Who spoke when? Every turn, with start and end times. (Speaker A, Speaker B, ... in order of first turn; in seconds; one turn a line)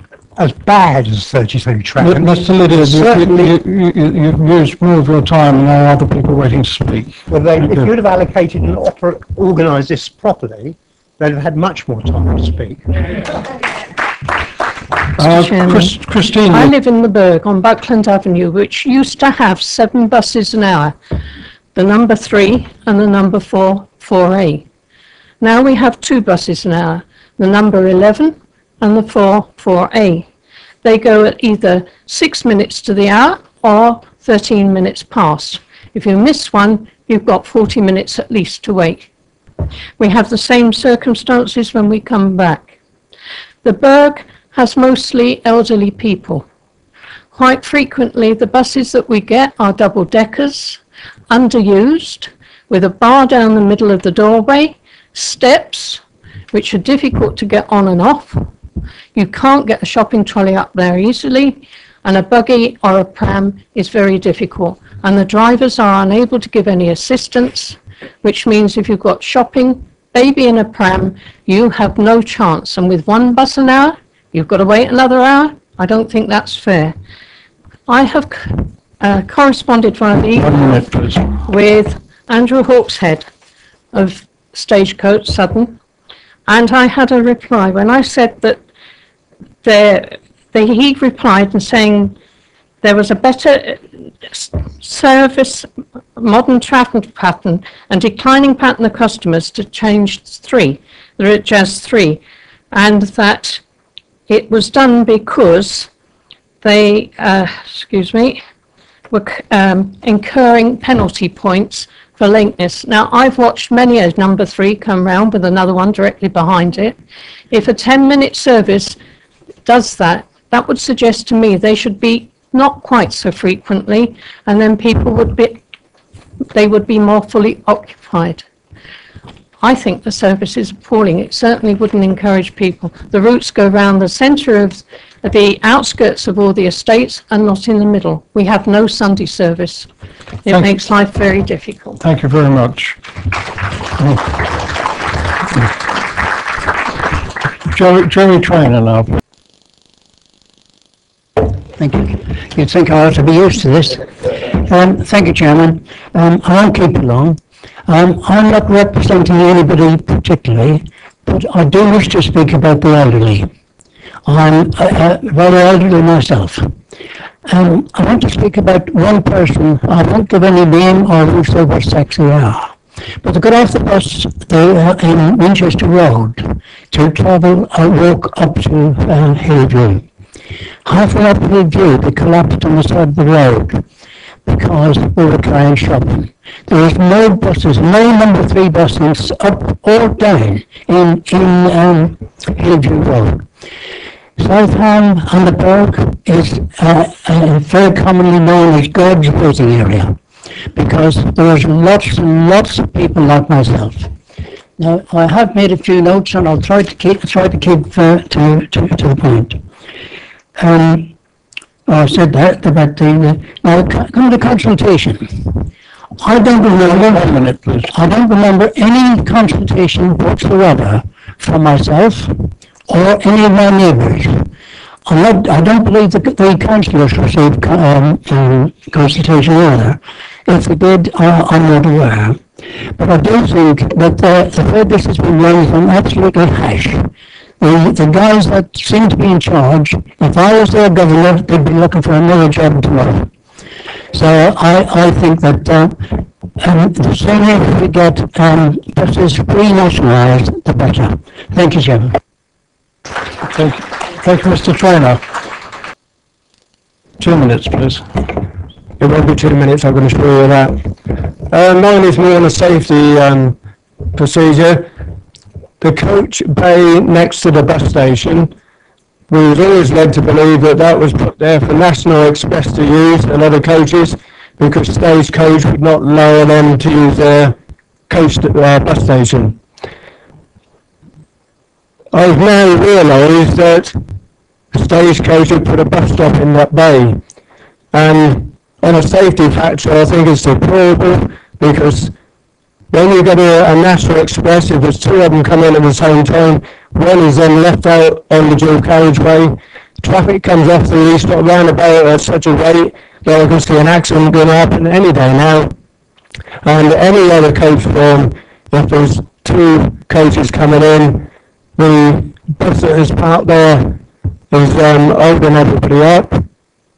Speaker A: 0.4-3.5
Speaker B: 2.0-7.2
Speaker A: 7.3-12.8
Speaker C: 15.2-16.0
Speaker B: 15.2-16.7
Speaker C: 16.5-20.9
Speaker C: 21.7-24.6
Speaker C: 25.4-30.3
Speaker C: 30.8-39.1
Speaker C: 40.0-42.7
Speaker C: 43.6-46.5
Speaker C: 47.3-58.5
Speaker C: 59.1-77.0
Speaker C: 77.9-83.3
Speaker B: 80.4-81.3
Speaker C: 83.9-85.8
Speaker C: 86.5-88.6
Speaker C: 89.6-92.2
Speaker C: 92.8-103.6
Speaker C: 104.3-105.9
Speaker C: 106.6-108.4
Speaker C: 109.1-117.0
Speaker C: 117.5-119.0
Speaker C: 119.7-125.6
Speaker C: 126.5-128.4
Speaker C: 129.6-139.9
Speaker C: 140.4-142.0
Speaker B: 142.0-143.0
Speaker B: 147.7-149.2
Speaker D: 151.8-163.5
Speaker D: 164.3-166.7
Speaker D: 167.5-180.0
Speaker D: 180.8-183.8
Speaker D: 184.5-193.4
Speaker D: 194.4-200.2
Speaker D: 200.8-204.1
Speaker D: 204.8-209.6
Speaker D: 210.6-211.1
Speaker D: 211.9-215.7
Speaker D: 216.2-217.3
Speaker B: 216.8-217.9
Speaker D: 217.9-224.5
Speaker D: 225.1-232.4
Speaker D: 233.0-243.3
Speaker D: 244.1-252.2
Speaker B: 253.4-255.2
Speaker B: 257.2-258.2
Speaker E: 259.0-263.6
Speaker E: 264.1-264.9
Speaker E: 265.8-268.5
Speaker E: 269.3-277.6
Speaker E: 278.1-279.6
Speaker E: 282.1-284.0
Speaker E: 284.7-287.2
Speaker E: 287.9-292.1
Speaker E: 292.9-305.7
Speaker E: 306.6-316.4